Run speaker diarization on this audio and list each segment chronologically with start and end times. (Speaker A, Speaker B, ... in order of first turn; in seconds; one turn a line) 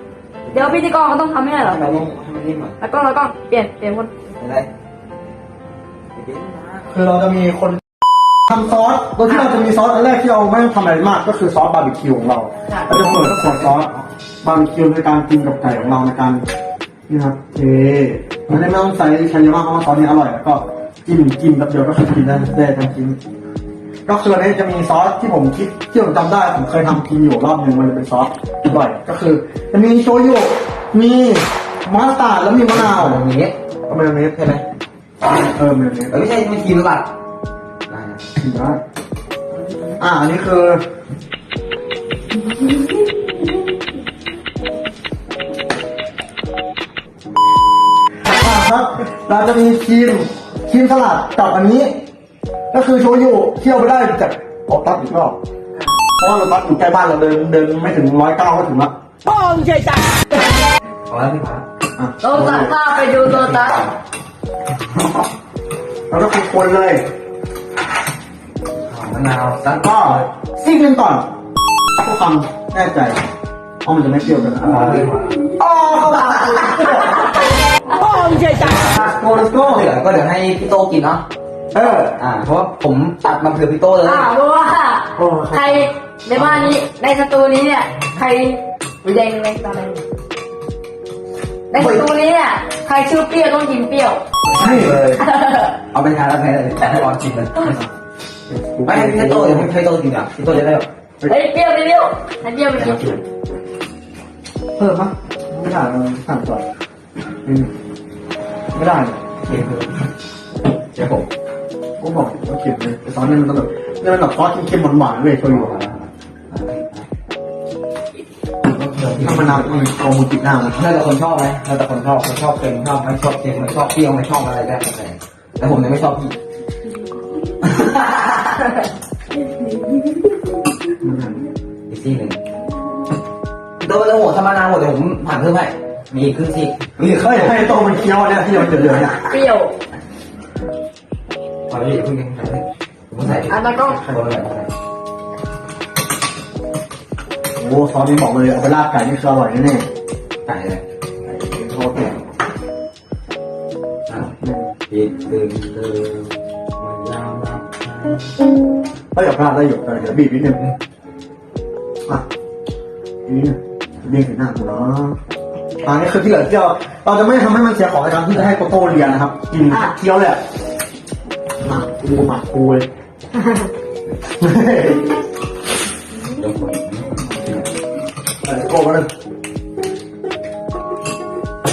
Speaker A: 0.5-0.8
Speaker B: 0.5-2.0
Speaker A: 1.6-2.8
Speaker B: 2.8-4.1
Speaker A: 4.3-4.7
Speaker A: 6.1-6.9
Speaker C: 6.9-7.8
Speaker C: 8.5-13.9
Speaker A: 12.9-14.1
Speaker C: 14.4-16.4
Speaker C: 17.1-23.2
Speaker C: 24.1-33.2
Speaker A: 32.7-33.5
Speaker C: 33.9-34.4
Speaker A: 34.1-34.6
Speaker C: 35.5-36.2
Speaker A: 36.1-37.1
Speaker A: 37.9-38.2
Speaker C: 38.4-38.8
Speaker C: 40.0-40.8
Speaker C: 48.2-51.9
Speaker C: 52.7-55.4
Speaker C: 56.2-58.9
Speaker B: 59.2-60.2
Speaker A: 61.1-61.6
Speaker C: 62.0-62.8
Speaker B: 62.2-63.8
Speaker A: 63.2-63.9
Speaker C: 66.1-67.0
Speaker A: 68.9-69.9
Speaker C: 69.7-71.3
Speaker C: 72.0-73.2
Speaker C: 73.8-77.4
Speaker A: 74.6-75.4
Speaker B: 76.8-77.3
Speaker B: 77.9-78.8
Speaker A: 78.6-81.2
Speaker C: 78.8-79.9
Speaker C: 81.7-82.2
Speaker A: 82.2-84.3
Speaker B: 84.0-90.0
Speaker C: 85.2-85.9
Speaker A: 86.3-86.8
Speaker B: 91.7-94.2
Speaker C: 91.8-92.1
Speaker A: 94.4-95.2
Speaker C: 94.6-95.0
Speaker B: 94.8-95.8
Speaker A: 95.9-97.8
Speaker C: 98.5-99.7
Speaker A: 98.8-100.9
Speaker B: 101.2-103.2
Speaker A: 102.8-103.2
Speaker C: 104.8-106.6
Speaker C: 107.4-107.7
Speaker C: 108.7-109.2
Speaker A: 109.4-109.9
Speaker A: 110.9-111.3
Speaker C: 112.0-115.7
Speaker A: 115.4-117.0
Speaker A: 118.6-119.8
Speaker C: 119.2-120.8
Speaker A: 120.7-126.4
Speaker A: 127.6-128.7
Speaker C: 131.0-131.4
Speaker A: 131.9-132.4
Speaker A: 133.8-137.7
Speaker C: 137.1-139.2
Speaker B: 139.0-139.7
Speaker A: 141.7-144.7
Speaker C: 143.2-144.2
Speaker B: 143.5-144.0
Speaker C: 147.6-149.8
Speaker A: 150.4-150.8
Speaker C: 151.3-152.1
Speaker A: 154.1-154.3
Speaker C: 154.4-154.7
Speaker A: 154.9-158.3
Speaker C: 159.1-160.6
Speaker C: 163.3-165.2
Speaker C: 165.8-170.4
Speaker A: 168.6-169.2
Speaker B: 169.7-169.9
Speaker C: 171.6-172.9
Speaker B: 173.4-173.7
Speaker C: 174.4-175.1
Speaker A: 176.3-177.7
Speaker C: 178.4-179.1